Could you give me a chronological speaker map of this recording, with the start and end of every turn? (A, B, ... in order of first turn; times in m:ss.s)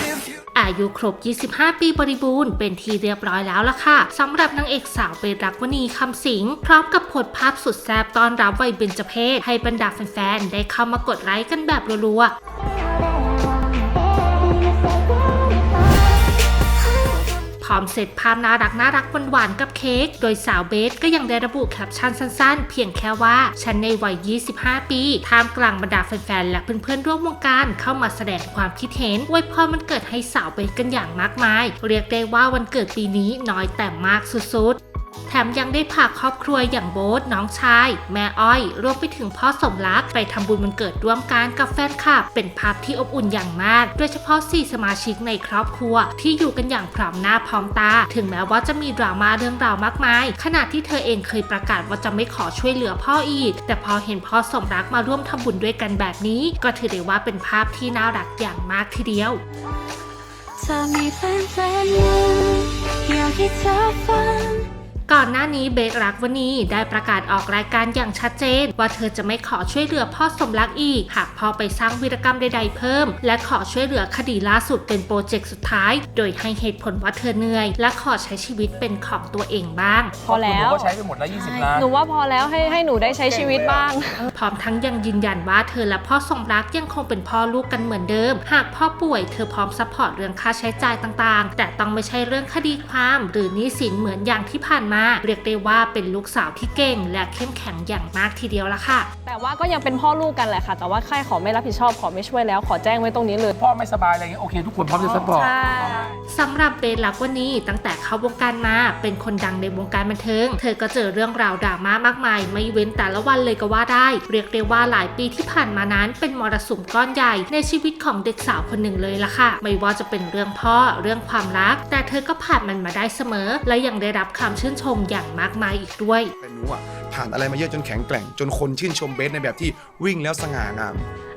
0:00.5-0:12.3 A
0:13.0-0:16.2 B
0:16.8-0:17.3 B
0:17.6-0:59.4 A
1:00.6-1:04.7 B
1:05.1-1:20.1 A
1:20.2-1:24.3 C
1:20.2-1:21.9 D
1:22.9-1:24.0 D
1:24.3-1:39.1 A
1:39.2-1:43.6 C
1:43.5-1:45.5 D
1:45.0-1:46.1 C
1:46.3-2:06.3 A
2:06.4-2:11.1 E